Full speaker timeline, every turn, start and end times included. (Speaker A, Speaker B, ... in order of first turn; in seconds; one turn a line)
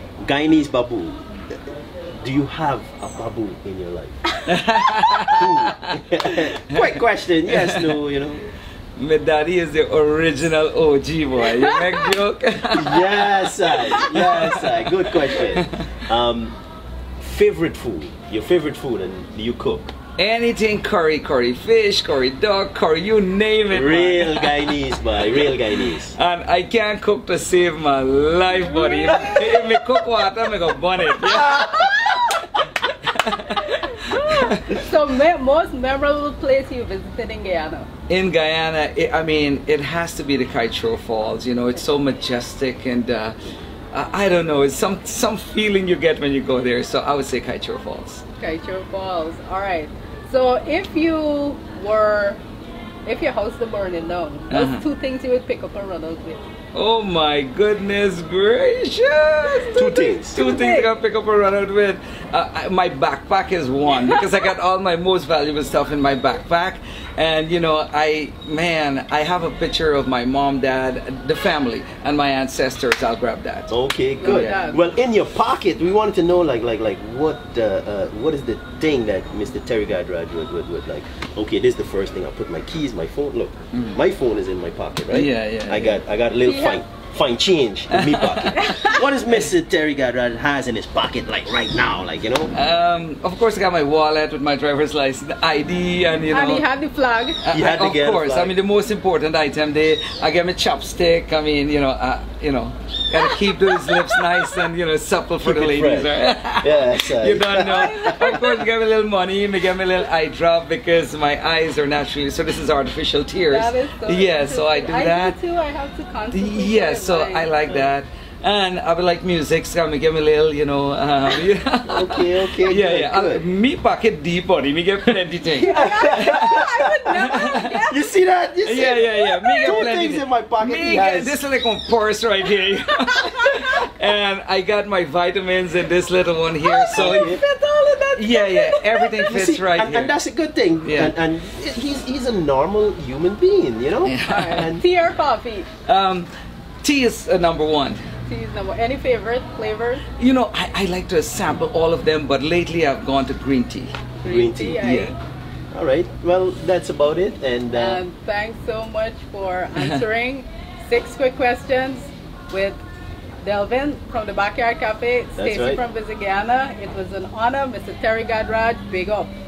Speaker A: 0.2-1.2
Speaker A: 2.2-4.2
Speaker B: 4.5-6.9
Speaker A: 5.3-8.4
Speaker B: 7.5-7.9
Speaker B: 9.0-15.8
Speaker C: 11.5-12.1
Speaker A: 12.7-16.6
Speaker A: 17.2-19.9
Speaker B: 20.2-32.3
Speaker A: 23.7-26.2
Speaker C: 28.5-29.8
Speaker C: 31.2-32.6
Speaker B: 32.9-34.8
Speaker C: 33.5-37.9
Speaker B: 38.1-43.4
Speaker B: 43.9-48.2
Speaker C: 48.4-52.4
Speaker C: 53.1-56.4
Speaker B: 54.5-54.8
Speaker B: 56.7-73.7
Speaker A: 59.7-60.4
Speaker C: 60.4-60.9
Speaker A: 73.7-92.5
Speaker C: 74.2-74.8
Speaker B: 74.3-74.7
Speaker B: 83.7-84.0
Speaker B: 85.1-86.0
Speaker C: 86.4-86.8
Speaker B: 87.9-89.4
Speaker C: 88.6-89.0
Speaker B: 92.5-96.7
Speaker C: 96.3-97.4
Speaker B: 97.4-115.3
Speaker A: 97.5-98.5
Speaker C: 103.7-104.2
Speaker A: 105.4-108.4
Speaker C: 107.7-108.7
Speaker C: 113.5-117.9
Speaker B: 116.3-127.9
Speaker A: 121.9-123.5
Speaker C: 125.5-128.0
Speaker A: 125.8-126.9
Speaker A: 127.9-131.4
Speaker B: 128.7-137.4
Speaker C: 136.6-139.3
Speaker A: 136.9-137.4
Speaker B: 138.2-140.1
Speaker A: 139.3-144.8
Speaker B: 140.8-141.1
Speaker B: 144.1-144.7
Speaker C: 144.2-145.7
Speaker B: 145.9-146.3
Speaker B: 146.8-148.0
Speaker C: 148.3-150.1
Speaker B: 150.2-153.9
Speaker C: 154.2-155.2
Speaker A: 154.2-154.8
Speaker B: 154.8-155.1
Speaker A: 155.7-158.0
Speaker C: 157.7-162.8
Speaker B: 159.8-160.0
Speaker C: 163.4-169.3
Speaker A: 165.4-165.8